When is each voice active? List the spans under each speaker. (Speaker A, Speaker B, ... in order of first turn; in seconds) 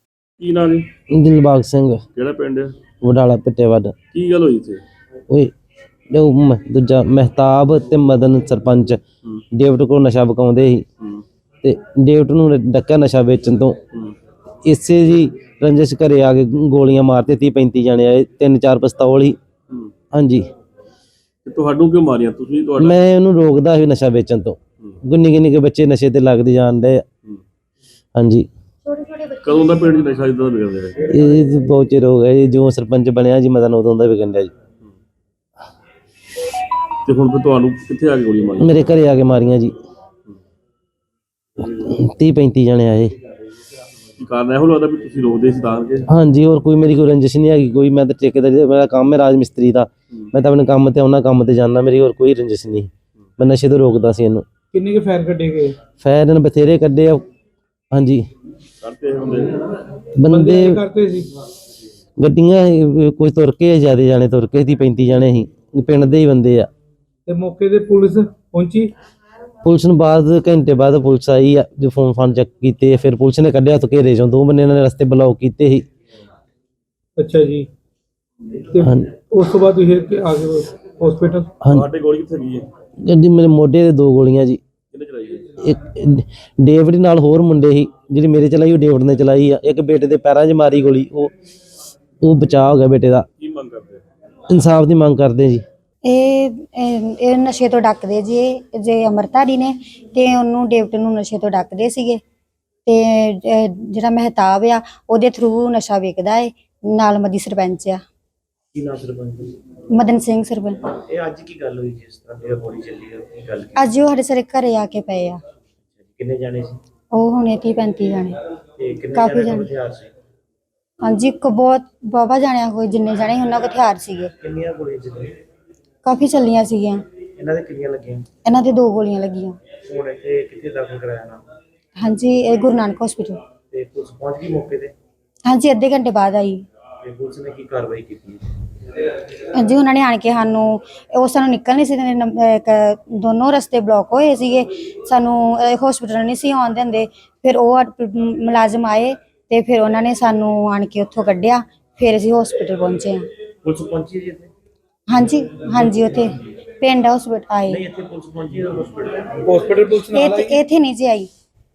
Speaker A: 0.4-0.9, 2.1-2.8, 4.1-4.8, 21.4-22.9, 29.4-31.0, 37.0-38.7, 44.2-46.1, 58.8-59.8, 81.7-82.7, 84.9-85.5, 93.4-94.0
Speaker B: 1.1-2.0, 3.0-3.9, 6.1-9.0, 9.5-10.8, 11.6-13.8, 14.6-19.4, 20.1-20.5, 22.8-27.0, 28.1-28.5, 31.1-34.5, 38.6-39.7, 41.6-43.1, 46.1-54.5, 56.0-57.2, 57.9-58.2, 60.1-60.8, 62.2-66.7, 69.6-75.8, 78.8-79.1, 83.0-84.6, 85.6-91.3, 92.2-93.3, 94.5-95.6
Speaker C: 28.9-29.7, 96.0-102.2, 102.8-108.0, 109.9-110.9, 113.7-115.4, 117.1-118.4, 119.1-119.7, 121.0-124.3, 126.0-127.0, 128.4-129.6, 132.0-133.4, 135.5-136.7, 139.5-153.3, 155.1-157.8, 160.1-161.3
Speaker D: 54.7-55.8, 60.2-61.3, 67.3-68.9, 77.2-77.7, 78.7-81.5, 159.4-160.6
Speaker E: 108.7-109.6, 110.9-113.7, 116.0-116.8, 118.8-120.1, 124.4-125.3, 127.3-128.2, 129.7-131.4, 133.7-134.9, 137.0-138.5, 153.6-154.5, 155.9-156.2, 157.7-159.4